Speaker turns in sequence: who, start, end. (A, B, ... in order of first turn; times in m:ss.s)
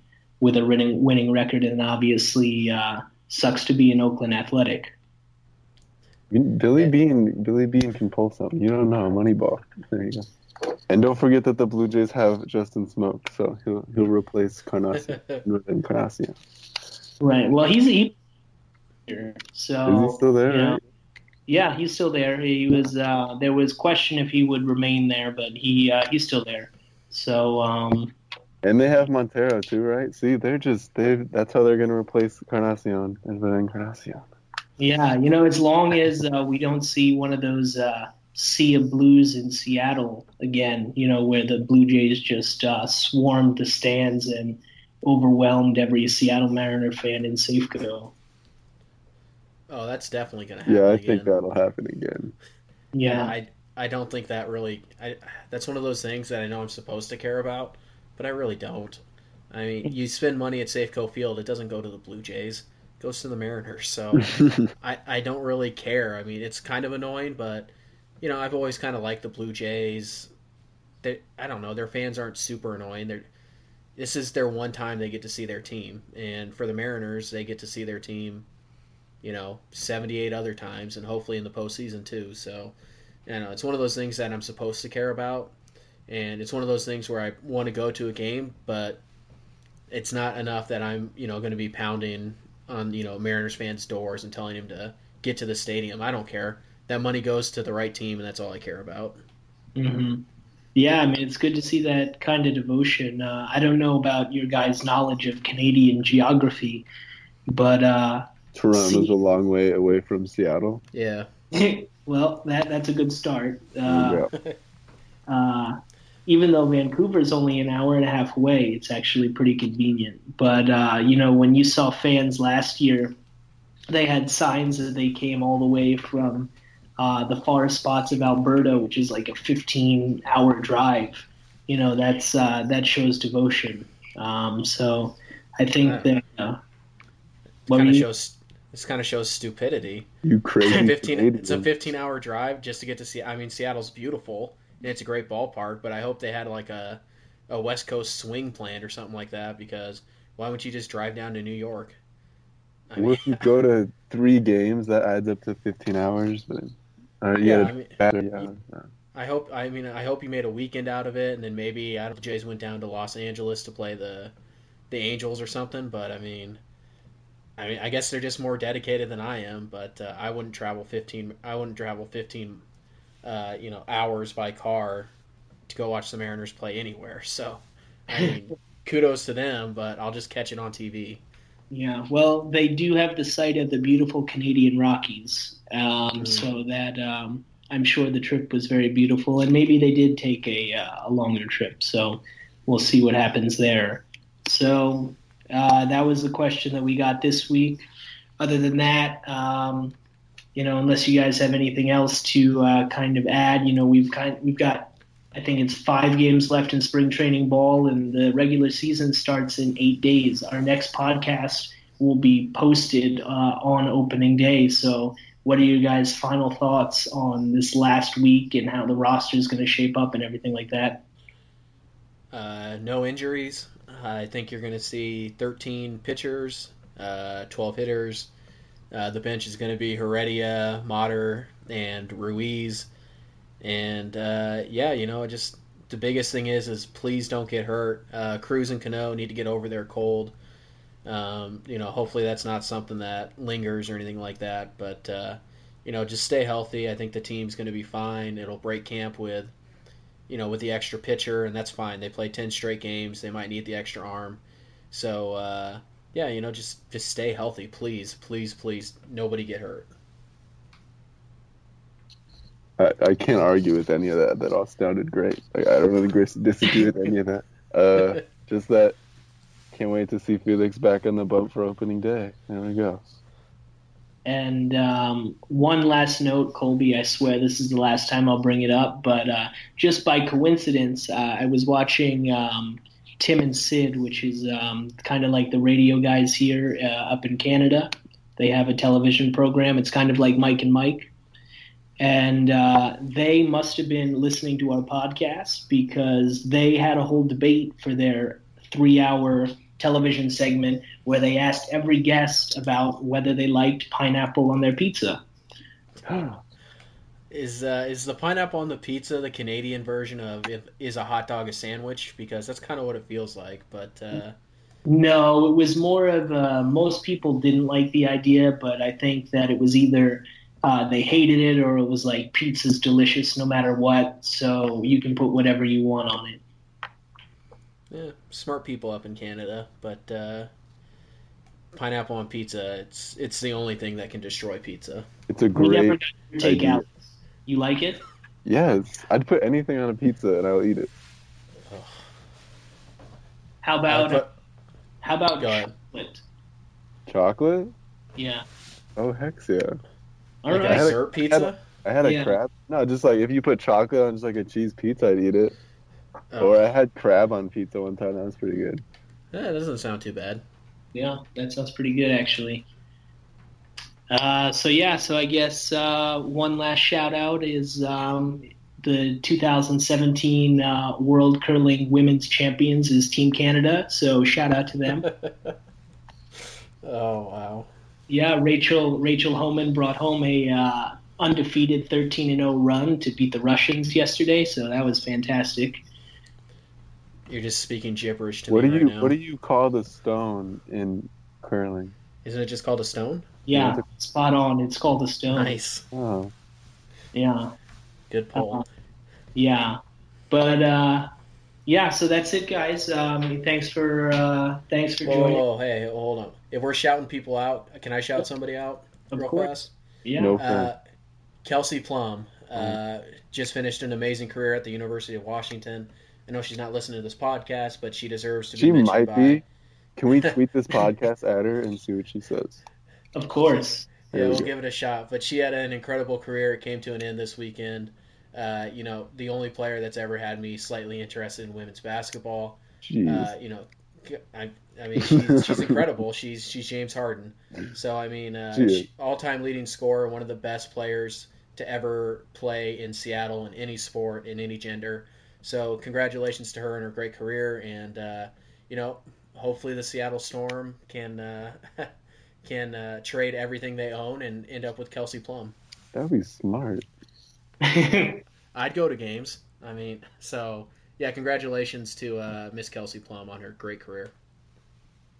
0:00.4-0:04.9 A
0:06.3-0:10.3 B
0:10.9-0:16.4 B
0:15.1-0:15.4 C
0:17.2-0:18.2 A
0:19.1-0:20.8 A
0:19.8-0:20.8 B
0:21.5-0:28.2 A
0:28.6-0:34.2 B
0:34.8-0:48.1 A
0:49.7-0:51.4 C
0:50.6-0:52.3 B
0:52.9-0:53.3 A
0:53.1-1:10.3 C
1:04.2-1:04.6 B
1:11.0-1:13.3 C
1:14.0-1:18.5 C
1:19.2-1:22.7 C
1:23.3-1:25.5 C
1:26.1-1:29.0 C
1:29.9-1:39.2 C
1:39.8-1:46.8 A
1:47.5-1:49.1 A
1:48.5-1:50.8 B
1:50.9-1:51.3 C
1:51.5-1:54.3 A
1:53.9-1:54.3 B
1:55.3-2:03.1 A
2:03.9-2:16.6 A
2:15.8-2:16.1 C
2:17.7-2:20.1 C
2:17.7-2:18.1 A
2:20.2-2:21.7 B
2:20.6-2:32.0 C
2:32.9-2:33.5 C
2:33.0-2:38.9 B
2:37.4-2:38.5 C
2:39.1-2:44.3 C
2:44.9-2:46.6 C
2:47.6-2:52.6 C
2:53.2-2:55.1 C
2:55.7-3:01.2 C
3:01.7-3:17.8 A
3:06.2-3:06.4 C
3:18.4-3:20.0 A
3:20.5-3:41.0 A
3:42.3-3:48.3 C
3:48.9-3:52.9 C
3:53.6-4:00.3 C
4:01.0-4:09.5 C
4:10.3-4:19.9 C
4:22.8-4:29.0 B
4:29.7-4:33.0 B
4:34.2-4:51.1 A
4:52.0-5:05.2 A
5:06.0-5:06.4 B
5:07.3-5:14.3 C
5:14.8-5:26.4 A
5:27.9-5:30.5 C
5:31.7-5:35.1 C
5:35.3-5:36.8 B
5:35.5-5:38.0 A
5:38.4-5:40.9 B
5:41.7-5:42.0 C
5:43.6-5:44.2 A
5:43.9-5:44.3 C
5:45.0-5:46.2 A
5:45.4-5:45.7 C
5:47.1-5:47.7 B
5:48.2-5:48.4 A
5:49.0-5:49.8 B
5:50.4-5:50.9 A
5:50.5-5:51.6 C
5:50.7-5:55.6 B
5:52.0-5:52.4 A
5:56.3-5:56.6 C
5:56.4-5:58.8 B
5:59.3-6:00.4 C
6:00.9-6:02.7 A
6:04.1-6:15.1 A
6:15.0-6:15.5 C
6:16.8-6:17.7 C
6:18.1-6:25.8 A
6:27.3-6:29.1 C
6:28.5-6:31.9 B
6:32.2-6:33.4 C
6:33.5-6:35.6 A
6:33.5-6:33.8 B
6:35.3-6:35.8 C
6:35.9-6:36.3 B
6:37.1-6:37.6 A
6:38.1-6:38.6 C
6:38.3-6:38.6 A
6:39.3-6:39.8 A
6:40.3-6:41.1 A
6:41.6-6:45.4 A
6:45.0-6:49.7 C
6:49.1-6:49.5 A
6:50.0-6:50.3 A
6:50.2-6:50.7 B
6:50.4-6:50.8 C
6:51.4-6:59.4 C
6:58.6-6:59.4 B
7:00.0-7:02.6 B
7:03.1-7:03.9 A
7:04.1-7:31.9 C
7:04.1-7:04.5 B
7:12.8-7:13.3 B
7:15.0-7:15.8 B
7:18.5-7:18.9 B
7:32.4-7:35.6 C
7:35.9-7:36.9 B
7:37.6-7:38.2 A
7:38.5-7:44.1 C